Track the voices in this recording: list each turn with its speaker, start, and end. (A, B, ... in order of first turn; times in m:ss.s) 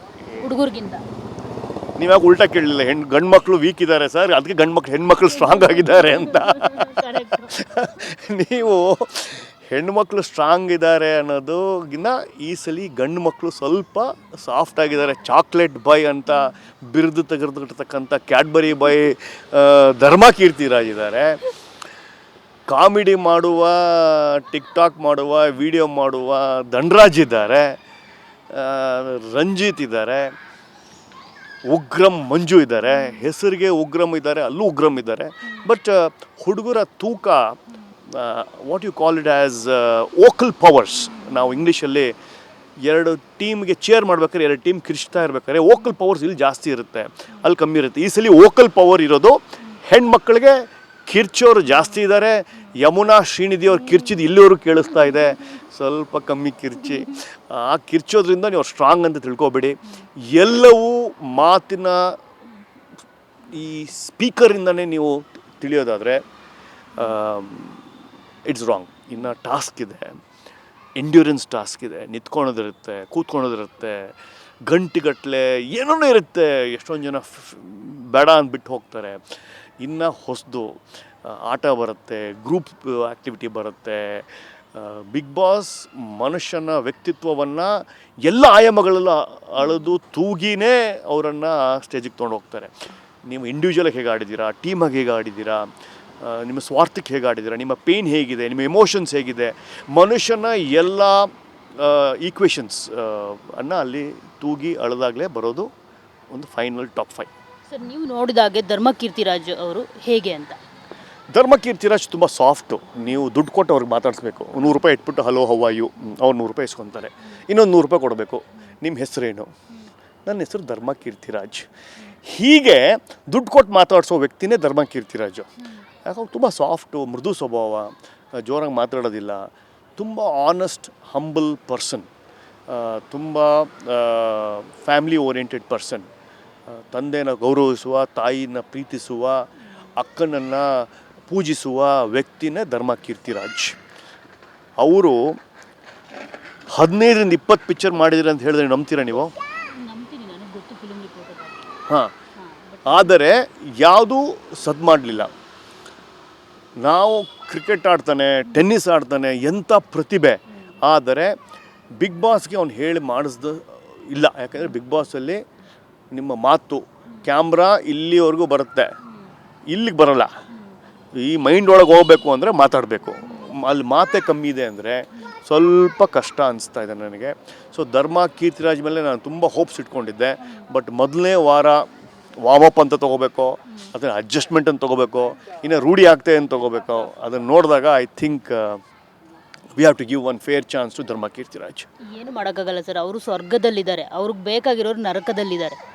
0:00.3-0:01.0 A
0:02.0-0:21.5 B
0:05.4-0:07.5 A
0:22.7-0:27.8 B
0:28.5-0:30.3 B
0:31.7-0:42.1 B
0:42.8-1:02.2 B
1:03.5-1:06.2 B
1:06.9-1:07.9 B
1:08.4-1:10.2 B
1:11.0-1:19.2 B
1:19.8-1:32.7 B
1:33.2-1:35.7 B
1:36.2-1:45.7 B
1:46.3-1:47.3 B
1:47.7-1:50.6 A
1:51.3-1:59.5 B
2:00.2-2:01.7 B
2:02.2-2:05.5 B
2:06.0-2:12.1 B
2:12.7-2:16.1 B
2:16.7-2:23.8 B
2:24.8-2:25.4 B
2:26.7-2:29.3 B
2:29.6-2:31.6 A
2:31.9-2:32.1 B
2:32.4-2:33.1 A
2:32.8-2:35.3 B
2:36.8-2:41.4 B
2:42.0-2:45.4 B
2:46.1-2:48.9 B
2:49.7-2:50.3 B
2:51.1-3:01.9 B
3:02.4-3:08.8 B
3:09.7-3:11.9 B
3:12.0-3:15.8 A